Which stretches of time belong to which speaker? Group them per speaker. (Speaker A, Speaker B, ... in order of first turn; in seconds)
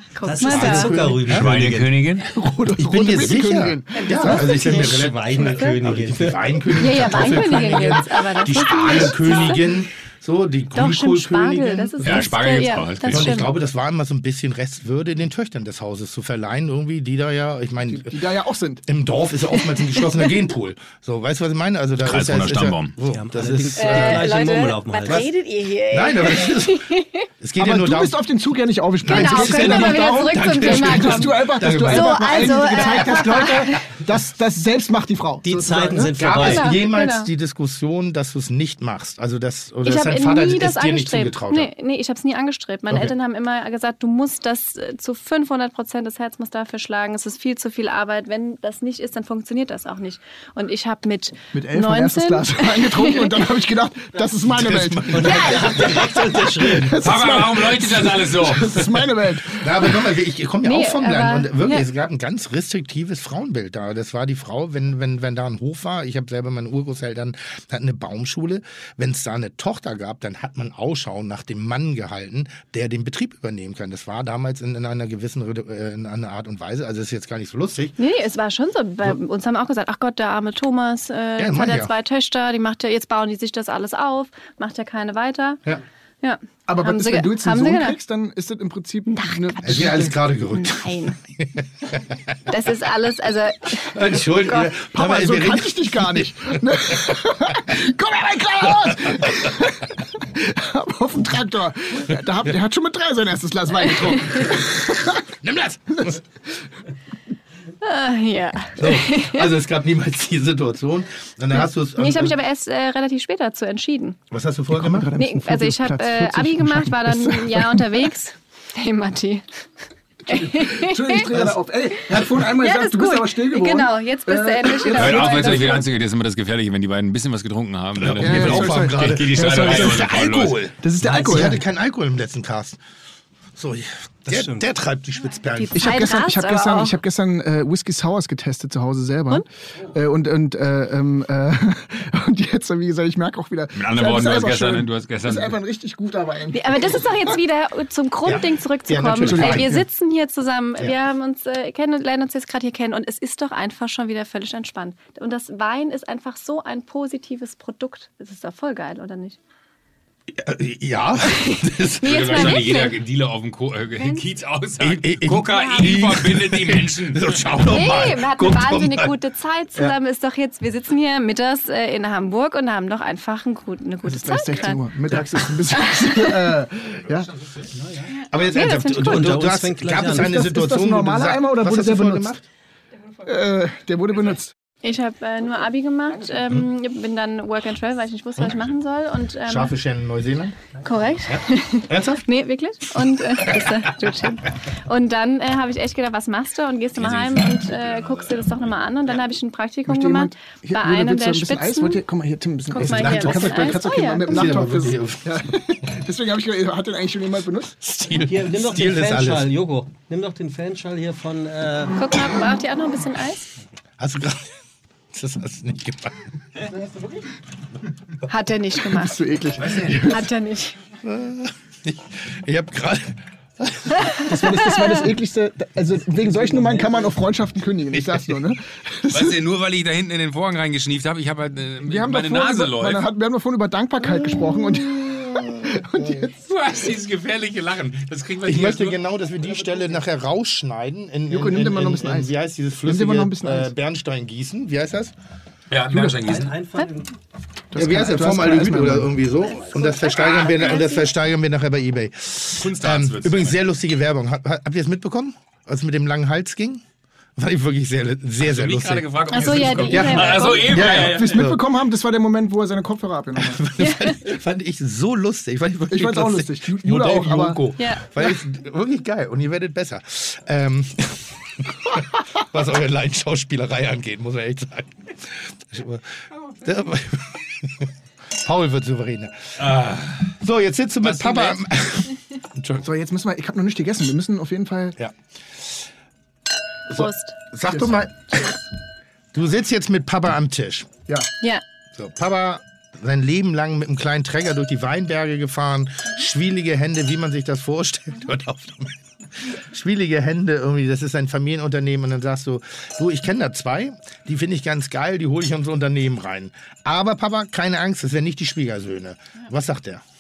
Speaker A: 0.1-1.1, 3.9-5.8, 6.7-9.7, 10.7-13.5, 19.6-20.3, 23.8-27.3, 29.0-34.0, 36.3-37.3, 39.8-53.4, 55.2-55.8, 60.6-61.9, 78.0-85.6, 86.2-88.0, 89.1-91.2, 92.5-94.6, 107.8-109.5, 111.5-114.2, 115.2-119.5, 120.3-121.3, 122.6-125.9, 135.5-136.9, 146.5-159.4, 161.3-163.0, 164.0-164.2, 165.4-165.9, 167.7-174.8, 175.8-176.2, 178.1-179.5, 184.8-189.7, 190.8-202.0, 202.7-204.6, 212.0-213.5, 218.3-219.2, 220.1-220.8, 249.5-251.1, 259.3-260.8, 263.8-264.2, 267.8-268.1, 286.9-287.4
Speaker B: 0.2-2.0, 4.3-6.4, 23.1-25.2, 35.4-36.8, 55.1-57.0, 131.0-131.6, 134.3-134.6, 179.0-180.4, 208.2-212.0, 246.2-247.1
Speaker C: 0.4-1.7, 2.8-12.4, 13.0-18.2, 18.9-24.4, 25.9-26.9, 27.4-28.2, 29.0-33.5, 36.2-41.7, 54.5-56.3, 59.6-78.0, 81.4-81.9, 89.6-91.6, 93.9-97.0, 105.4-106.2, 108.8-112.3, 114.3-115.1, 121.3-121.5, 128.0-132.8, 133.6-135.9, 148.2-149.8, 160.3-162.7, 164.8-169.1, 178.3-182.4, 189.4-190.6, 191.3-192.2, 202.8-205.3, 207.8-209.5, 214.0-214.5, 215.1-216.2, 221.0-224.0, 227.9-228.4, 234.1-236.3, 238.4-245.1, 247.7-256.8, 257.4-261.6, 263.4-277.9, 278.4-279.8, 280.4-282.9, 284.9-285.8, 286.9-288.6, 289.3-290.9, 291.9-310.0
Speaker D: 1.2-2.3, 12.0-13.4, 22.0-22.9, 57.0-59.0, 124.9-130.6, 143.7-145.6, 162.0-167.5, 196.9-198.8, 219.6-220.0, 229.1-233.1, 236.4-239.0, 245.7-246.6, 252.6-253.6, 258.4-261.4, 279.6-280.3, 281.0-281.6
Speaker E: 2.3-4.5, 17.9-18.8, 27.6-36.4, 51.5-55.9, 56.6-59.9, 86.7-90.2, 94.7-105.2, 114.7-118.1, 120.3-125.8, 128.2-130.2, 130.8-131.6, 135.7-147.4, 149.2-149.8, 174.0-177.3, 180.1-182.4, 183.2-184.5, 199.9-207.7, 218.9-220.3, 224.3-229.4, 231.8-236.4, 241.3-242.3, 242.8-243.7, 245.9-246.2, 247.7-249.2, 260.6-263.7, 265.9-267.7, 282.8-284.9, 287.6-287.9